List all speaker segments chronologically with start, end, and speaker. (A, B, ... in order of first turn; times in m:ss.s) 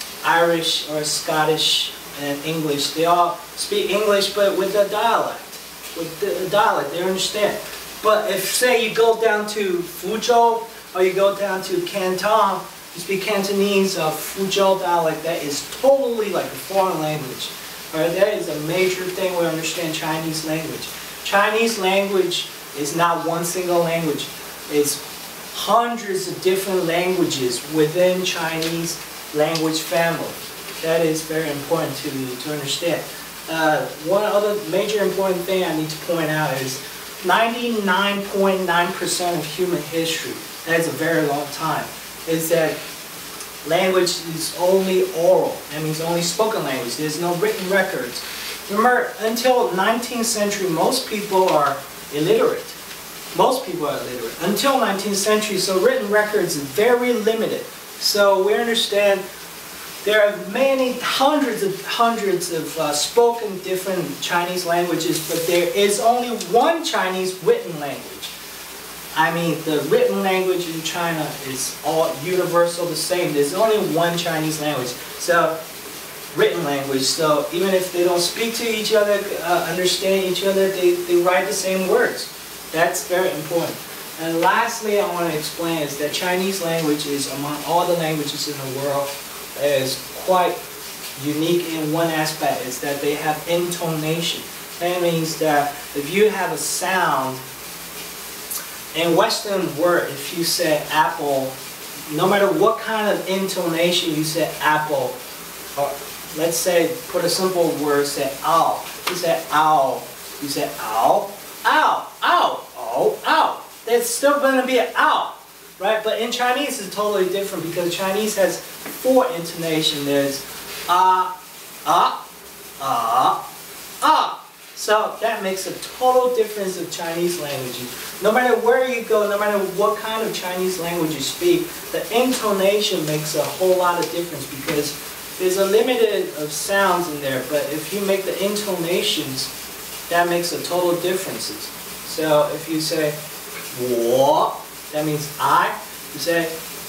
0:00.2-0:25.0 A
0:25.5-0:42.8 A
0:43.6-0:52.8 A
0:53.3-0:59.2 A
1:00.0-1:08.3 A
1:09.1-1:15.6 A
1:16.3-1:30.6 A
1:31.2-1:37.4 A
1:38.9-1:41.5 A
1:42.1-1:45.2 A
1:45.8-2:01.3 A
2:01.8-2:02.2 A
2:02.8-2:03.4 A
2:04.0-2:19.5 A
2:20.1-2:23.2 A
2:23.7-2:26.5 A